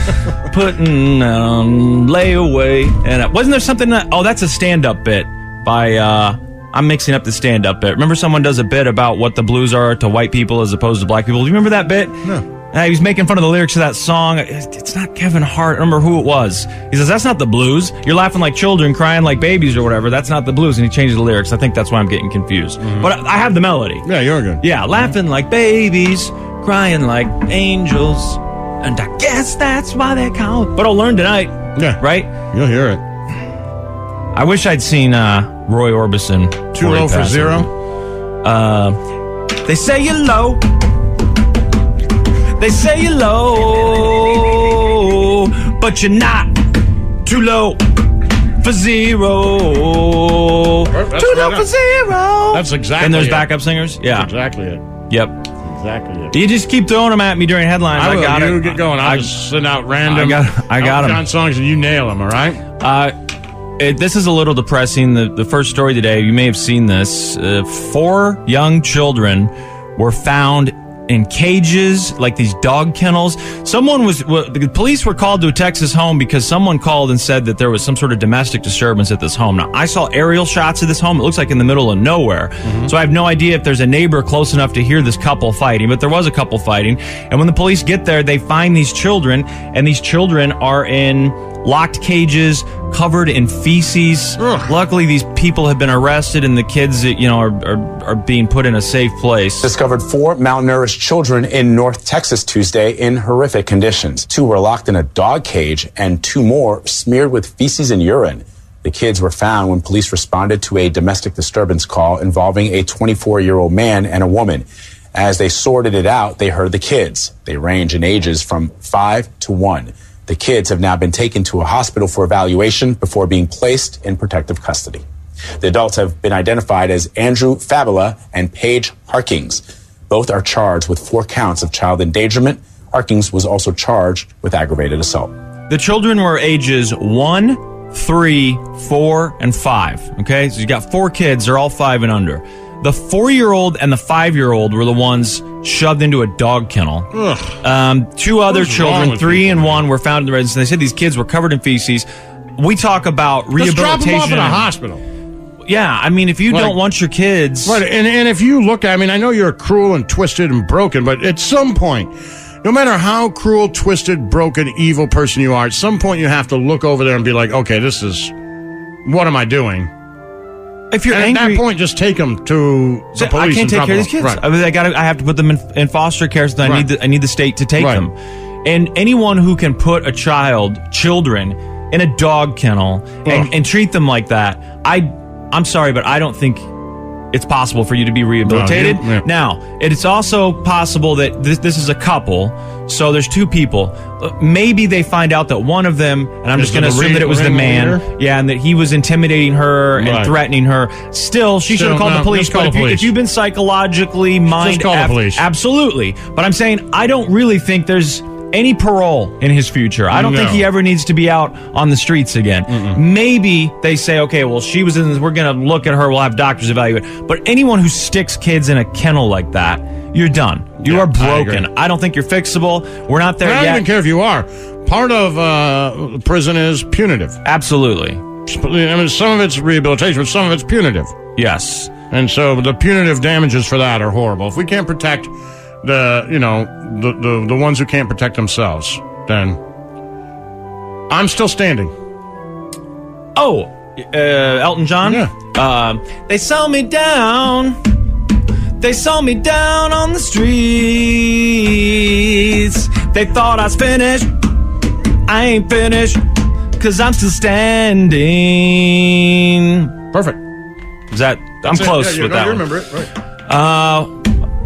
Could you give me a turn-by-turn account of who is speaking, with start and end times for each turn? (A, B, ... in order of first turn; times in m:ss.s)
0:00.5-0:24.0 A
0:22.8-0:23.1 B
0:24.0-0:25.1 B
0:24.6-0:32.4 A
0:31.8-0:33.0 B
0:34.3-0:37.7 A
0:36.8-0:37.7 B
0:38.4-0:39.0 A
0:39.7-0:40.6 A
0:42.6-0:46.5 A
0:47.2-0:47.8 A
0:48.6-0:54.3 A
0:50.9-0:51.7 B
0:52.5-0:53.5 B
0:54.1-0:54.8 B
0:55.1-0:55.5 A
0:55.6-0:56.4 B
0:56.3-0:59.4 A
0:58.0-1:02.6 B
1:00.0-1:01.2 A
1:02.8-1:03.2 A
1:03.8-1:39.7 A
1:22.6-1:22.9 B
1:34.4-1:34.7 B
1:39.6-2:05.0 C
2:05.6-2:15.3 C
2:15.7-2:27.1 A
2:27.1-2:27.6 B
2:27.6-2:32.1 A
2:28.5-2:29.8 B
2:32.6-2:34.7 A
2:33.6-2:35.0 B
2:35.7-2:37.8 A
2:36.5-2:36.8 B
2:37.6-2:48.3 B
2:49.0-2:49.9 B
2:50.9-2:51.6 A
2:51.1-2:54.4 B
2:53.2-2:58.1 A
2:56.6-2:56.9 B
2:57.8-2:58.0 B
2:58.6-3:06.7 A
3:03.2-3:03.5 B
3:07.3-3:43.9 A
3:08.5-3:09.2 B
3:16.6-3:18.0 B
3:20.0-3:20.3 B
3:21.7-3:23.1 B
3:24.5-3:25.4 B
3:30.1-3:30.7 B
3:32.7-3:33.0 B
3:40.8-3:41.7 B
3:43.4-3:47.4 B
3:47.4-3:48.2 A
3:48.5-3:51.1 B
3:51.4-3:51.9 A
3:52.1-3:59.6 B
4:01.1-4:01.9 B
4:03.4-4:07.8 A
4:05.0-4:05.3 B
4:08.8-4:14.3 A
4:15.3-4:16.2 A
4:16.8-4:19.9 A
4:20.1-4:20.4 B
4:21.1-4:22.7 A
4:21.6-4:23.1 B
4:23.5-4:24.1 A